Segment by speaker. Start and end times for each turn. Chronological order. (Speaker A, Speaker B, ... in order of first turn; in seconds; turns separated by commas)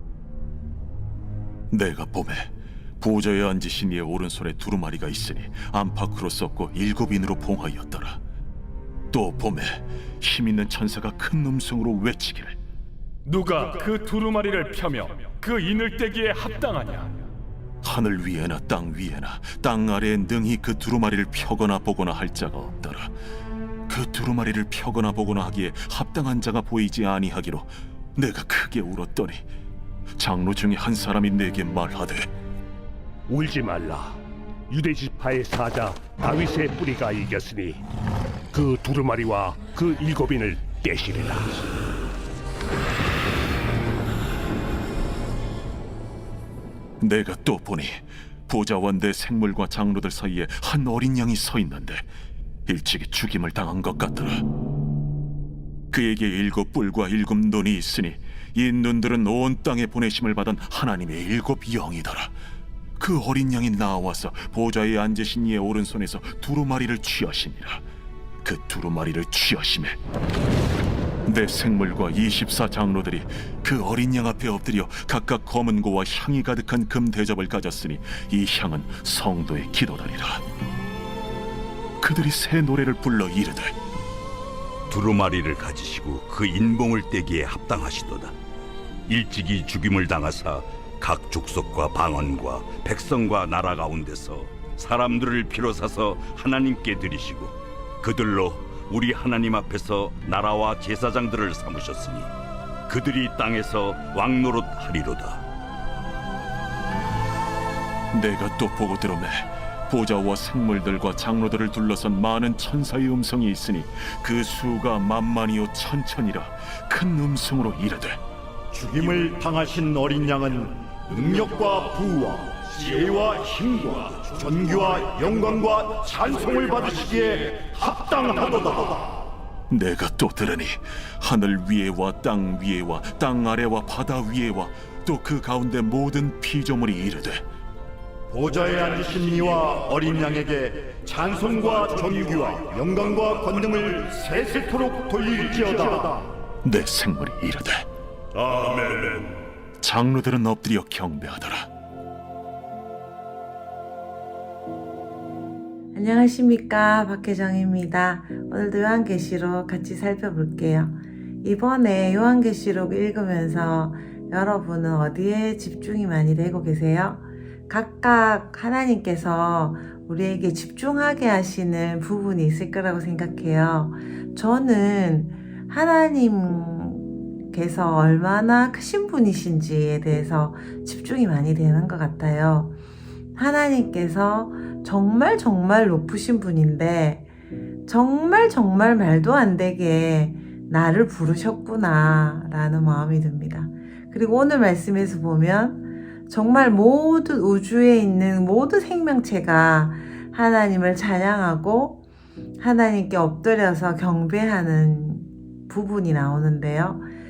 Speaker A: 1.7-8.2, Speaker A: 9.1-12.6, Speaker B: 13.2-17.2, Speaker A: 17.8-23.1, Speaker A: 23.9-29.4, Speaker A: 30.2-32.3, Speaker C: 33.3-37.8, Speaker C: 38.5-41.7, Speaker A: 47.0-52.0, Speaker A: 52.6-54.4, Speaker A: 55.9-62.3, Speaker A: 63.0-67.8, Speaker A: 68.4-70.0, Speaker A: 71.2-80.4, Speaker A: 82.0-83.7, Speaker D: 84.9-88.3, Speaker D: 89.1-102.3, Speaker D: 102.9-105.4, Speaker A: 108.1-118.2, Speaker E: 118.7-129.2, Speaker A: 129.7-137.4, Speaker E: 138.3-146.3, Speaker A: 146.6-147.9, Speaker E: 148.3-149.3, Speaker A: 149.8-151.7, Speaker F: 155.9-182.7, Speaker F: 183.3-187.2, Speaker F: 187.9-202.0, Speaker F: 202.6-207.0